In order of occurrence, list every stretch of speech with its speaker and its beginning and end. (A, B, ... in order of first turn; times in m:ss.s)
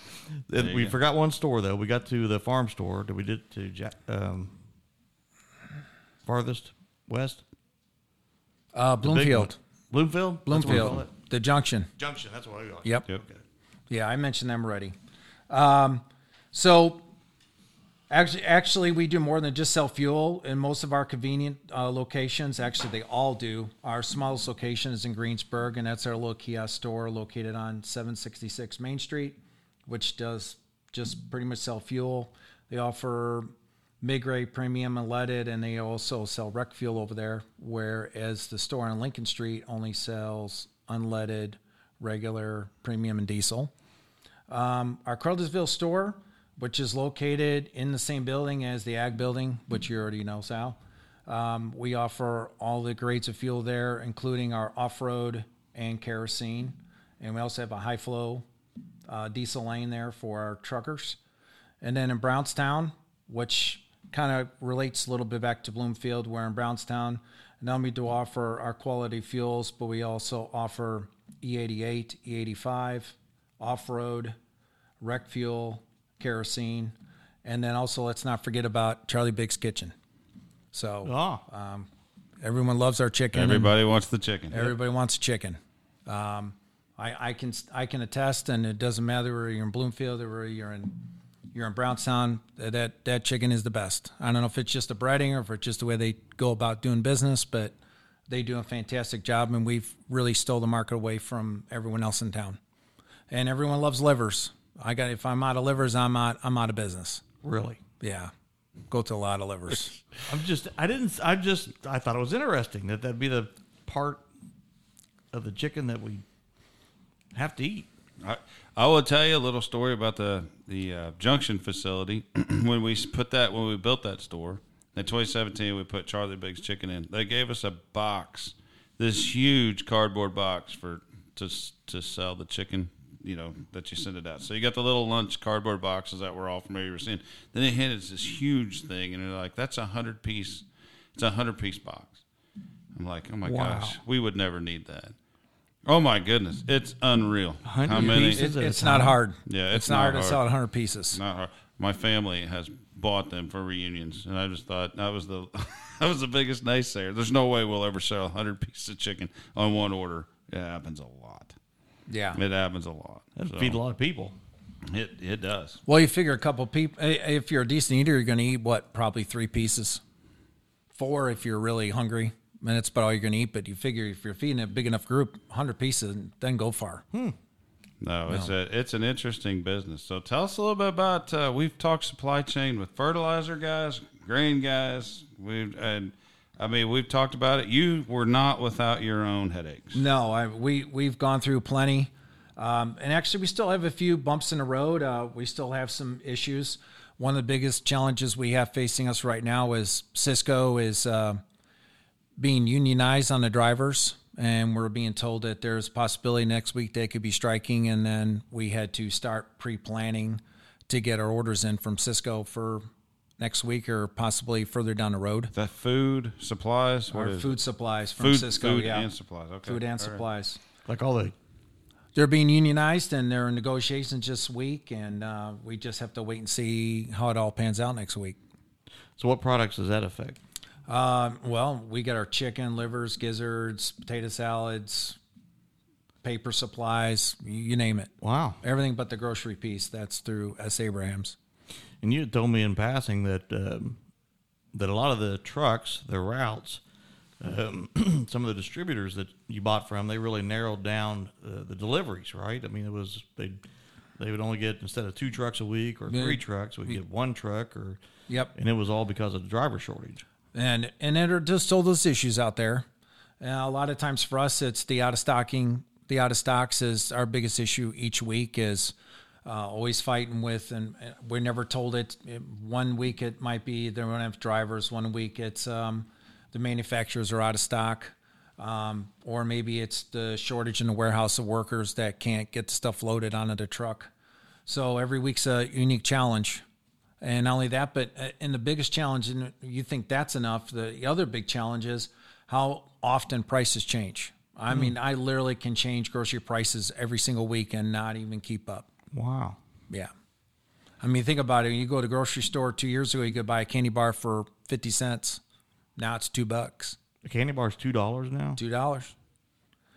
0:00.4-0:04.6 A
0:00.6-0:01.0 B
0:06.2-0:07.4 A
0:08.7-0:09.6 C
0:09.0-0:11.1 A
0:10.5-0:11.9 C
0:12.0-0:13.4 A
0:13.9-0:15.0 C
0:15.5-0:17.0 C
0:18.1-0:33.5 C
0:34.0-0:43.7 C
0:44.5-0:58.4 C
0:59.1-1:01.2 C
1:01.8-1:14.4 C
1:15.0-1:16.9 C
1:17.4-1:19.9 C
1:20.7-1:21.9 C
1:21.0-1:21.4 A
1:22.4-1:23.7 C
1:23.3-1:24.7 B
1:24.5-1:37.7 C
1:38.3-1:42.6 C
1:43.3-1:47.2 C
1:47.4-1:47.8 A
1:48.0-1:48.3 C
1:48.9-1:50.0 C
1:50.3-1:54.3 A
1:55.3-1:56.2 A
1:57.3-1:57.9 A
1:58.2-2:22.2 B
2:23.0-2:25.2 B
2:23.5-2:24.0 A
2:25.9-2:28.5 B
2:27.6-2:29.2 A
2:28.0-2:31.2 C
2:29.5-2:30.4 B
2:31.1-2:41.6 B
2:42.1-2:42.4 C
2:42.4-2:43.8 B
2:43.4-2:44.3 A
2:44.9-2:45.8 B
2:45.9-2:50.0 C
2:51.0-2:57.0 C
2:58.0-3:10.0 B
3:09.9-3:21.4 C
3:22.4-3:32.8 C
3:33.4-3:35.5 C
3:35.5-3:37.6 B
3:37.1-3:39.1 C
3:38.2-3:40.2 B
3:39.7-3:40.6 C
3:40.9-3:41.4 A
3:42.2-3:48.4 C
3:49.2-3:50.4 A
3:50.9-3:55.2 C
3:56.2-4:01.4 C
3:58.2-3:58.6 A
4:02.0-4:04.0 A
4:04.7-4:06.8 A
4:07.4-4:13.6 A
4:14.2-4:18.0 A
4:16.1-4:17.0 C
4:18.5-4:20.2 A
4:20.5-4:22.9 C
4:23.4-4:28.9 C
4:29.4-4:44.1 C
4:44.7-4:46.6 C
4:47.2-4:58.9 C
4:59.1-4:59.6 A
5:01.0-5:05.4 C
5:06.0-5:07.0 C
5:07.2-5:08.6 A
5:08.6-5:09.1 C